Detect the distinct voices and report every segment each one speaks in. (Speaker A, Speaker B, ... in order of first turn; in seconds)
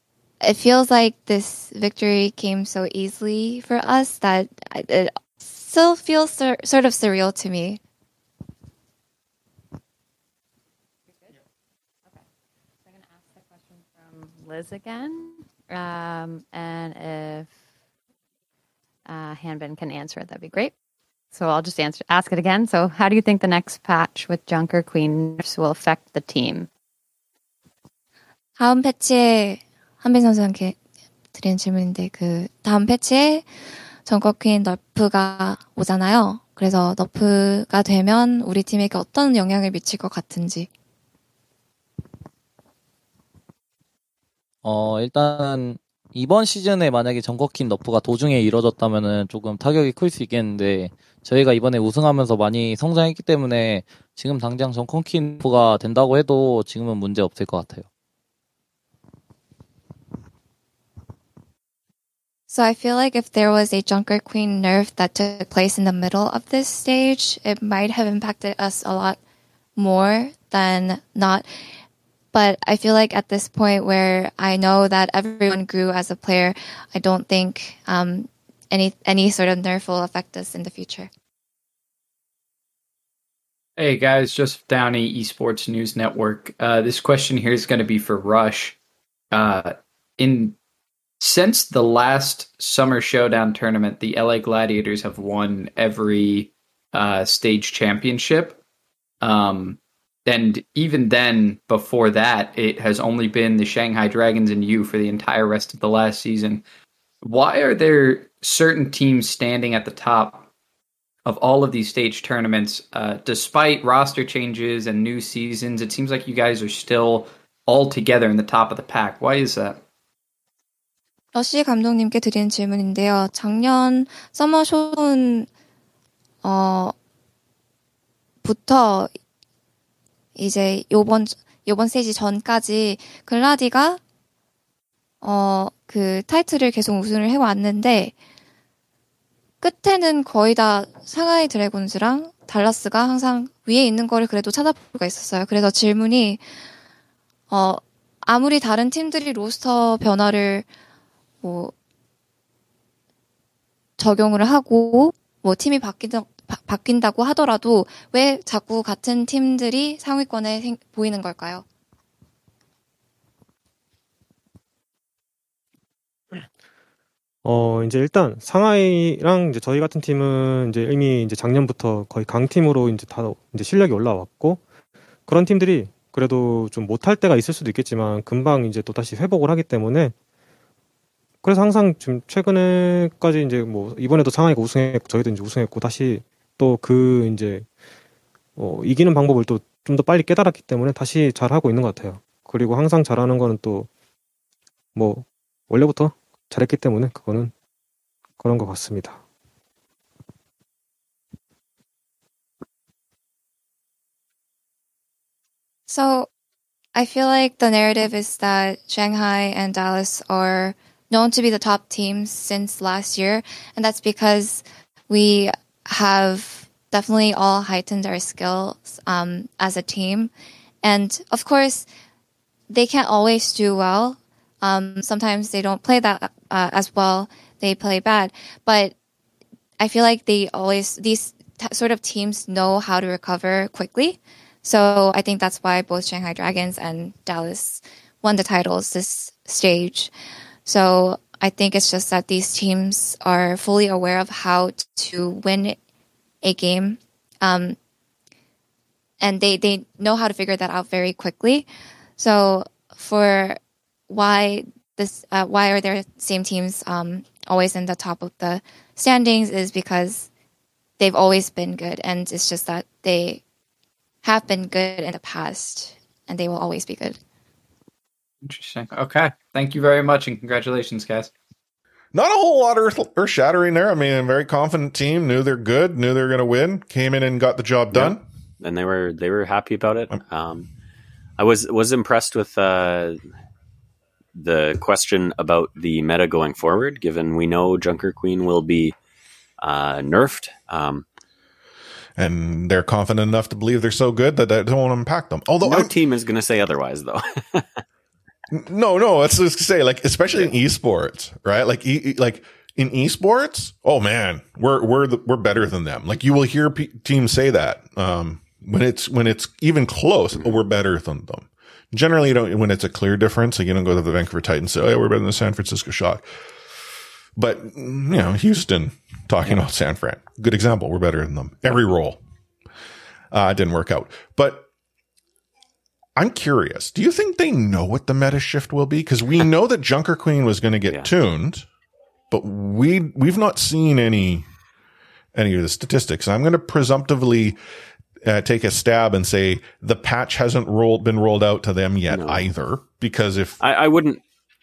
Speaker A: 0.4-7.8, 28.6-30.8, 31.3-33.5, 34.0-40.7, 62.5-69.2, 69.8-71.5, 72.3-81.1, 121.3-125.5, 126.4-126.9, 128.4-129.1, 130.3-134.0, 135.2-138.1, 139.6-146.4, 147.5-150.7, 151.4-151.7, 154.0-161.6, 205.9-206.3, 206.9-220.3, 220.8-221.9, 222.7-228.9, 229.8-240.1, 240.7-245.8, 246.4-247.8, 249.2-260.3, 261.0-263.4, 264.2-267.2
Speaker B: 12.8-17.5, 19.1-20.7, 21.3-26.7
Speaker C: 44.6-57.8
Speaker D: 83.8-88.8, 89.3-90.5, 91.2-98.6, 99.2-106.6, 107.2-110.5, 111.2-119.8, 268.4-271.3
Speaker E: 167.4-174.6, 175.3-180.1, 181.4-187.7, 188.6-193.9, 194.9-197.5, 198.4-199.2
Speaker F: 272.1-278.2, 292.2-295.9, 298.5-316.2, 317.4-322.2, 323.3-324.7, 326.1-331.6, 332.3-334.5, 335.3-337.6, 338.2-343.6
Speaker G: 277.9-280.7, 281.4-283.2, 284.4-288.9, 289.6-291.1, 295.6-297.8, 342.1-342.5, 343.6-344.2